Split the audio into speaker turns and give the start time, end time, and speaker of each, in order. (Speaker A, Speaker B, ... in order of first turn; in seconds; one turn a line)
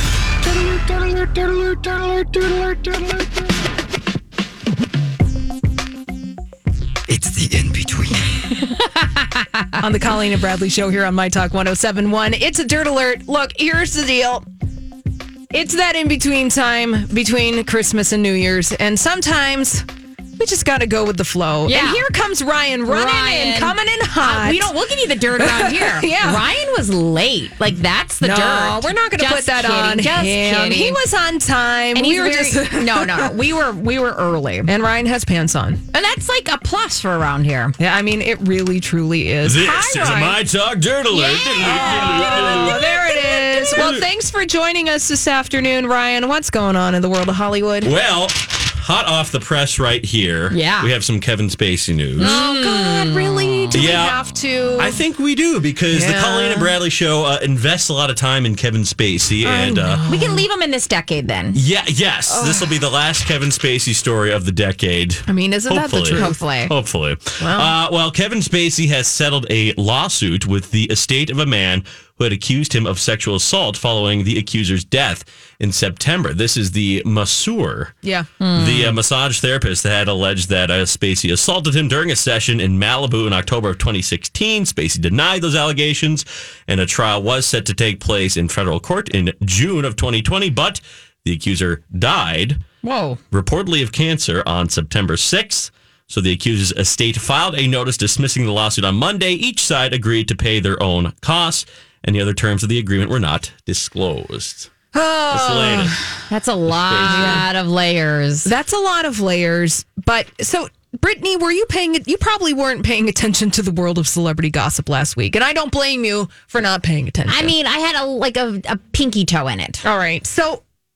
Speaker A: 0.8-3.1
Speaker A: 7.1-8.3
Speaker B: 8.6-9.8
Speaker A: 9.8-14.4
Speaker A: 15.5-19.9
Speaker A: 20.4-24.7
Speaker B: 21.6-22.0
Speaker B: 22.9-31.0
Speaker A: 25.4-26.5
Speaker A: 28.2-33.4
Speaker B: 31.9-34.7
Speaker A: 34.7-35.8
Speaker B: 35.9-37.8
Speaker A: 37.8-40.4
Speaker C: 39.4-44.0
Speaker A: 41.1-47.9
Speaker B: 41.7-43.6
Speaker C: 47.8-52.4
Speaker B: 50.5-50.9
Speaker B: 52.2-54.0
Speaker A: 52.2-55.0
Speaker C: 53.7-54.2
Speaker C: 54.8-60.1
Speaker A: 55.9-56.8
Speaker A: 59.4-60.5
Speaker B: 60.1-61.6
Speaker C: 61.5-78.0
Speaker A: 62.3-62.7
Speaker A: 65.3-66.4
Speaker B: 66.1-66.7
Speaker A: 67.4-67.8
Speaker A: 78.0-78.3
Speaker B: 78.4-79.0
Speaker C: 78.5-92.6
Speaker B: 92.8-93.2
Speaker C: 93.3-104.7
Speaker A: 104.9-106.2
Speaker C: 105.3-106.0
Speaker B: 106.3-108.5
Speaker C: 106.7-107.5
Speaker A: 107.1-107.5
Speaker A: 108.5-117.5
Speaker B: 117.3-119.8
Speaker A: 119.8-120.6